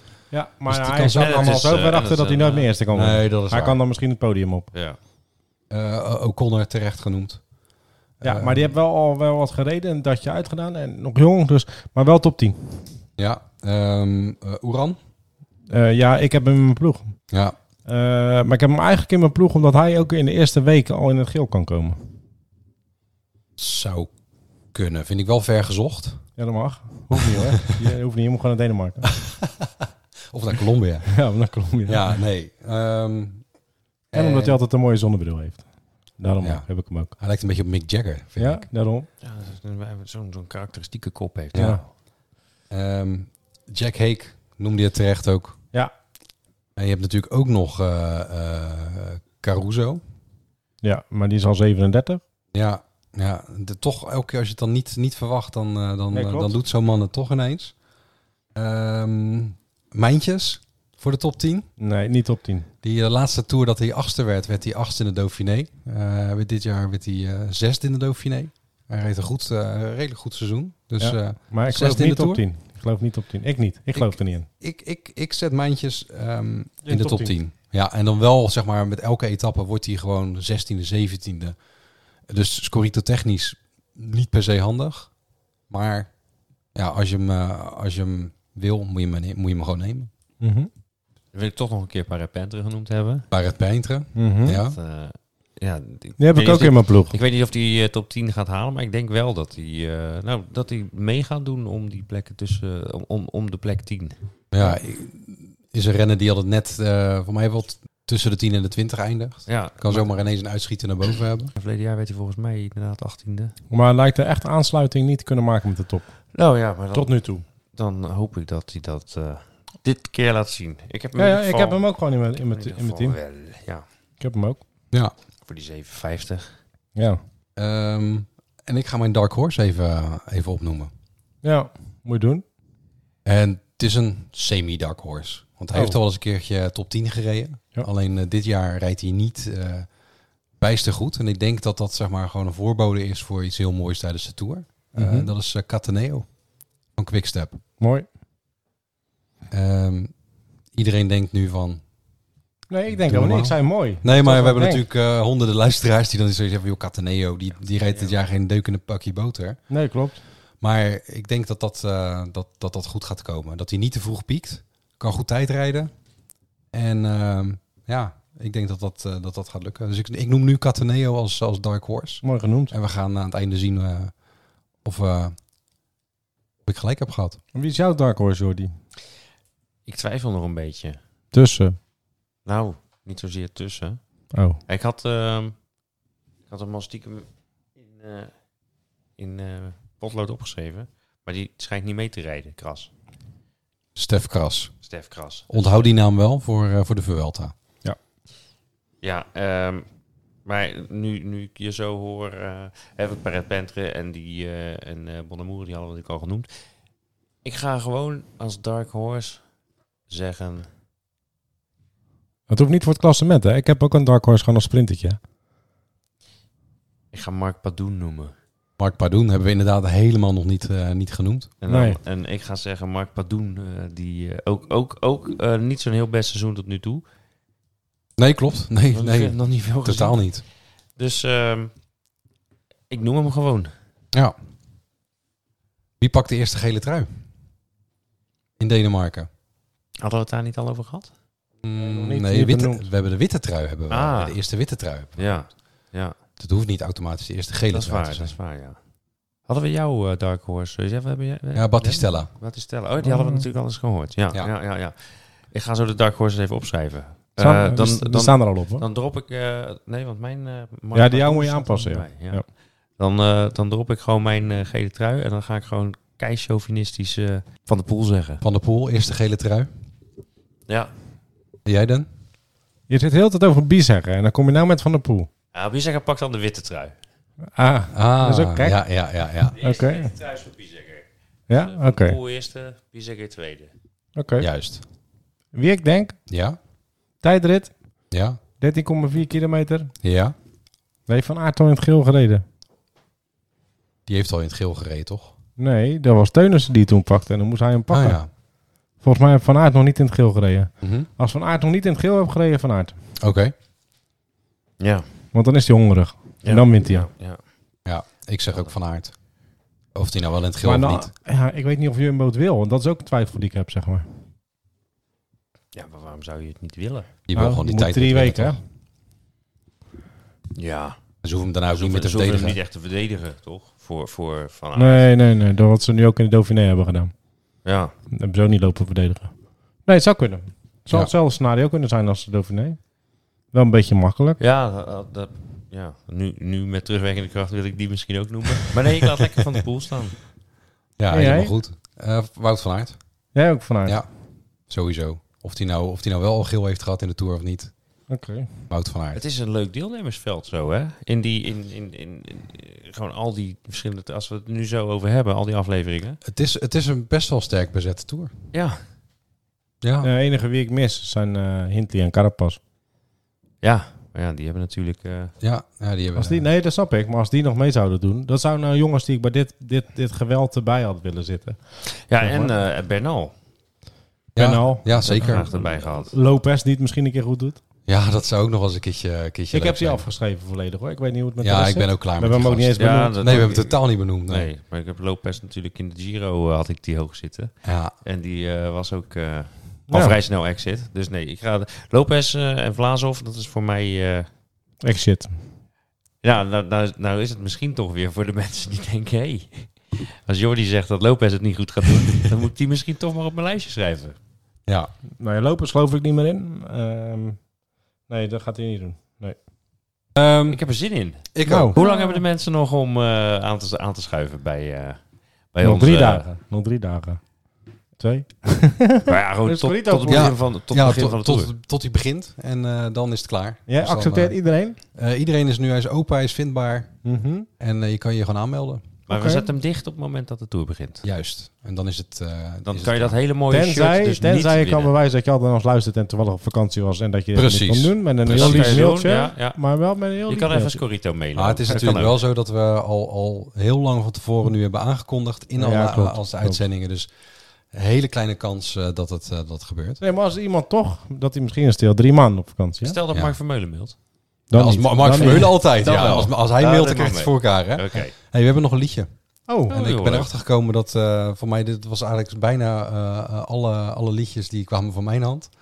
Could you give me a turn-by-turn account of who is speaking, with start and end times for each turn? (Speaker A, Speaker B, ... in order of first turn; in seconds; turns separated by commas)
Speaker A: 0.3-4.7, Speaker B: 0.7-1.6, Speaker C: 1.1-2.7, Speaker B: 2.9-3.8, Speaker C: 4.7-5.0, Speaker B: 5.7-7.4, Speaker B: 8.2-8.7, Speaker A: 8.2-12.9, Speaker B: 13.2-15.0, Speaker A: 15.7-17.1, Speaker B: 17.3-17.6, Speaker A: 17.9-22.0, Speaker B: 23.6-24.1, Speaker B: 24.7-26.2, Speaker A: 26.4-29.1, Speaker B: 29.1-29.7, Speaker B: 30.3-31.1, Speaker A: 31.1-32.1, Speaker B: 31.9-33.4, Speaker B: 34.1-34.6, Speaker A: 34.1-35.7, Speaker A: 36.2-37.1, Speaker B: 36.4-38.7, Speaker A: 38.4-39.1, Speaker C: 39.2-41.8, Speaker B: 41.5-41.8, Speaker A: 41.5-41.8, Speaker B: 42.7-45.6, Speaker B: 46.8-50.0, Speaker A: 50.8-52.2, Speaker B: 52.5-57.7, Speaker A: 56.1-56.6, Speaker B: 58.5-61.7, Speaker A: 61.8-62.7, Speaker B: 62.8-72.4, Speaker A: 71.0-74.5, Speaker B: 73.9-81.6, Speaker A: 76.8-77.4, Speaker B: 82.3-85.1, Speaker B: 85.7-86.1, Speaker B: 86.8-90.1, Speaker A: 90.4-90.7, Speaker C: 91.3-93.2, Speaker B: 93.3-94.8, Speaker A: 94.2-94.6, Speaker C: 94.7-104.2, Speaker A: 96.2-97.2, Speaker B: 104.5-111.5, Speaker C: 109.5-110.1, Speaker C: 111.5-113.5, Speaker A: 113.7-116.1, Speaker C: 116.3-117.2, Speaker A: 116.9-117.4, Speaker C: 117.7-121.8, Speaker A: 121.2-123.2, Speaker C: 122.3-123.8, Speaker A: 124.2-124.6, Speaker C: 125.5-126.6, Speaker B: 127.6-130.9, Speaker A: 131.4-132.4, Speaker B: 133.2-139.9, Speaker B: 140.6-146.3, Speaker A: 144.9-145.3, Speaker B: 147.0-147.6, Speaker A: 147.8-148.1, Speaker B: 149.5-150.1, Speaker B: 150.8-151.8, Speaker A: 152.7-154.8, Speaker B: 152.9-159.6, Speaker C: 157.9-158.1, Speaker A: 159.7-160.2, Speaker B: 160.6-165.9, Speaker B: 166.7-174.1, Speaker A: 172.2-172.7, Speaker B: 174.8-175.3, Speaker B: 176.7-177.4, Speaker A: 177.5-178.7, Speaker C: 179.9-181.0, Speaker A: 181.3-181.8, Speaker C: 182.5-184.0, Speaker A: 184.3-184.6, Speaker C: 184.7-185.6, Speaker C: 186.5-188.3, Speaker C: 189.2-192.9, Speaker B: 194.0-194.7, Speaker C: 194.8-196.0, Speaker B: 195.5-197.5, Speaker C: 199.0-199.9, Speaker C: 200.5-206.5, Speaker C: 207.4-209.4, Speaker C: 210.1-210.7, Speaker A: 212.5-215.2, Speaker C: 217.1-218.3, Speaker B: 218.8-221.5, Speaker C: 221.6-227.0, Speaker A: 221.7-222.0, Speaker B: 228.2-230.4, Speaker C: 228.9-230.2, Speaker C: 231.0-231.7, Speaker C: 232.9-233.7, Speaker B: 236.0-237.1, Speaker B: 238.6-239.3, Speaker C: 240.0-241.1, Speaker B: 241.6-245.4, Speaker A: 241.8-242.9, Speaker C: 243.9-244.4, Speaker C: 245.2-246.2, Speaker B: 246.4-248.3, Speaker C: 247.7-248.8, Speaker C: 249.5-255.0, Speaker B: 251.6-252.3, Speaker A: 253.0-253.4, Speaker C: 255.5-262.4, Speaker A: 257.4-258.9, Speaker A: 260.9-262.4, Speaker C: 263.0-268.4, Speaker B: 268.4-269.7, Speaker B: 271.7-272.1, Speaker A: 272.9-275.3, Speaker C: 275.5-276.9, Speaker A: 277.6-278.8, Speaker B: 277.9-279.6, Speaker C: 279.6-283.7, Speaker A: 279.6-280.1, Speaker A: 281.5-282.2, Speaker A: 284.2-284.5, Speaker B: 284.4-284.8, Speaker A: 285.6-286.2, Speaker B: 286.3-286.6, Speaker A: 287.2-287.7, Speaker B: 288.1-288.4, Speaker A: 288.6-289.9, Speaker B: 290.0-290.3, Speaker A: 291.1-292.4, Speaker B: 294.1-295.3, Speaker A: 295.6-298.2, Speaker B: 297.9-298.3, Speaker A: 299.0-302.9, Speaker B: 300.8-301.1, Speaker B: 303.2-303.5, Speaker C: 304.8-305.1, Speaker A: 305.3-307.1, Speaker C: 306.4-307.4, Speaker B: 307.9-309.1, Speaker B: 309.9-311.1, Speaker A: 310.6-314.1, Speaker C: 315.7-317.1, Speaker B: 317.3-318.6, Speaker A: 317.4-318.6, Speaker C: 320.6-321.0, Speaker B: 321.2-322.6, Speaker C: 321.7-325.1, Speaker A: 324.8-327.1, Speaker C: 327.6-327.9, Speaker A: 328.1-329.3, Speaker A: 329.9-332.8, Speaker A: 333.5-334.4, Speaker C: 334.4-340.2, Speaker B: 341.0-343.0, Speaker A: 341.1-341.5, Speaker A: 343.4-344.0, Speaker B: 344.7-347.7, Speaker A: 348.1-348.5, Speaker B: 348.7-349.2, Speaker C: 349.1-356.2, Speaker B: 356.2-358.3, Speaker C: 358.5-358.8, Speaker B: 359.8-360.1, Speaker A: 360.0-362.6, Speaker C: 363.6-365.3, Speaker B: 365.4-366.5, Speaker A: 366.2-371.6, Speaker C: 371.9-373.3, Speaker A: 372.1-372.5, Speaker B: 374.4-375.5, Speaker A: 374.4-377.6, Speaker C: 375.0-376.1, Speaker B: 377.9-380.1, Speaker A: 379.5-383.4, Speaker B: 381.4-384.5, Speaker C: 382.8-387.5, Speaker B: 387.6-387.9, Speaker C: 388.0-394.3, Speaker A: 389.9-390.2, Speaker A: 394.8-395.4, Speaker C: 396.2-404.2, Speaker A: 405.2-407.4, Speaker A: 408.1-409.4, Speaker B: 410.1-410.6, Speaker C: 410.5-415.0, Speaker B: 411.3-411.8, Speaker A: 411.4-412.2, Speaker C: 415.5-416.3, Speaker A: 415.6-417.2, Speaker A: 418.0-420.3, Speaker C: 419.1-421.5, Speaker B: 420.1-424.4, Speaker A: 423.7-424.8, Speaker B: 424.9-426.9, Speaker A: 427.0-427.5, Speaker B: 427.6-428.8, Speaker C: 429.1-431.0, Speaker A: 429.1-429.4, Speaker B: 431.0-433.2, Speaker C: 432.7-434.9, Speaker A: 433.5-440.8, Speaker B: 437.4-438.9, Speaker C: 438.3-439.6, Speaker C: 440.2-442.2, Speaker B: 441.4-447.1, Speaker A: 445.6-446.6, Speaker B: 447.7-450.0, Speaker A: 450.0-453.0, Speaker C: 452.8-453.9, Speaker A: 454.5-455.7, Speaker B: 454.5-459.1, Speaker C: 455.1-458.1, Speaker A: 459.5-459.8, Speaker B: 459.6-465.5, Speaker C: 459.7-460.3